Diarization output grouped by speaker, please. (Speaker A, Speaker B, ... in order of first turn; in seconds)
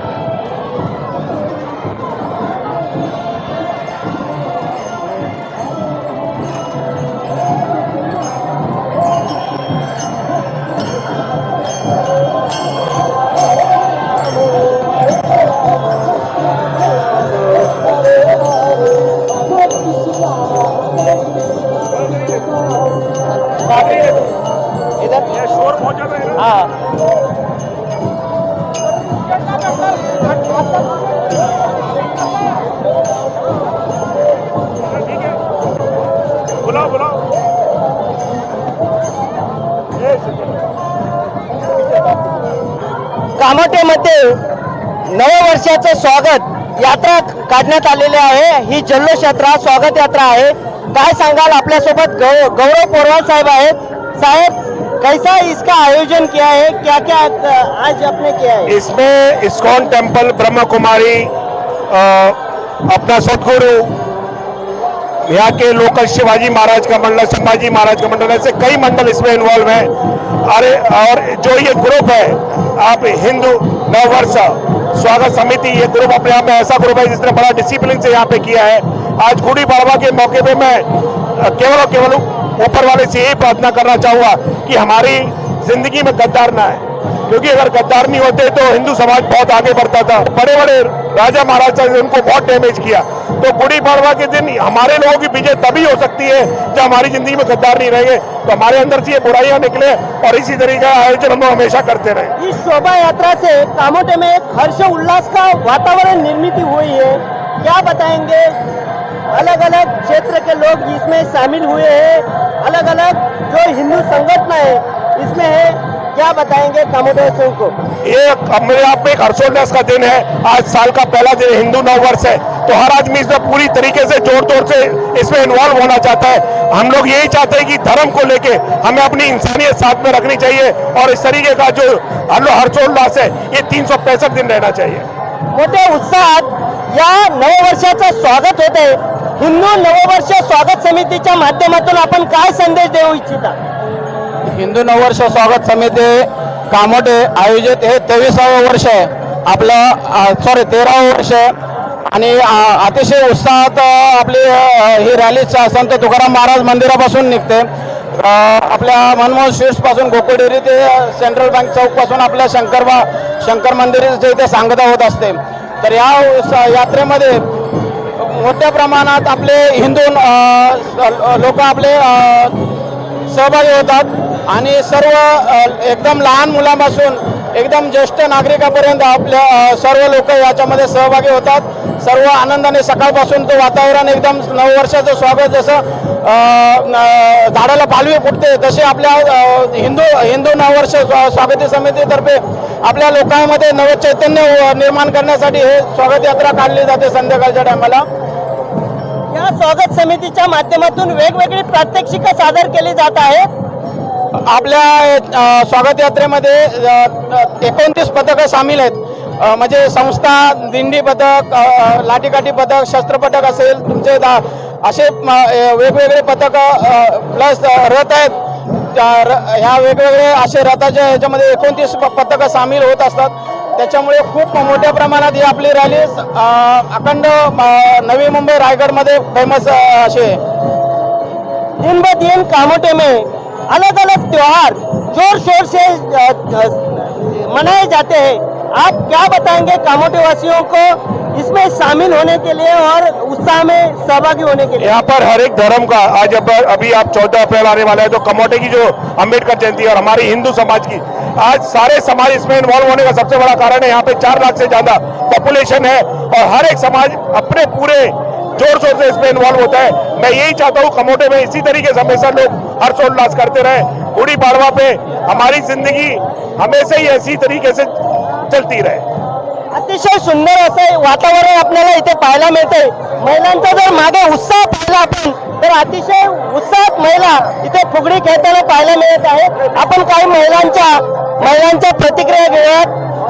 Speaker A: 25.0-25.3, 26.4-26.7, 43.4-44.4, 45.1-58.7, 102.4-108.5, 109.3-117.7, 135.5-143.6, 199.3-203.5, 231.8-244.9, 269.7-282.9
Speaker B: 25.5-26.4, 36.6-37.2, 40.0-40.4, 58.7-61.3, 61.9-62.4, 62.9-63.9, 65.2-69.9, 70.5-102.3, 118.0-135.1, 244.8-267.9, 268.5-269.0
Speaker C: 144.5-151.5, 152.1-167.4, 168.2-172.6, 173.3-198.0, 204.5-218.4, 218.9-230.4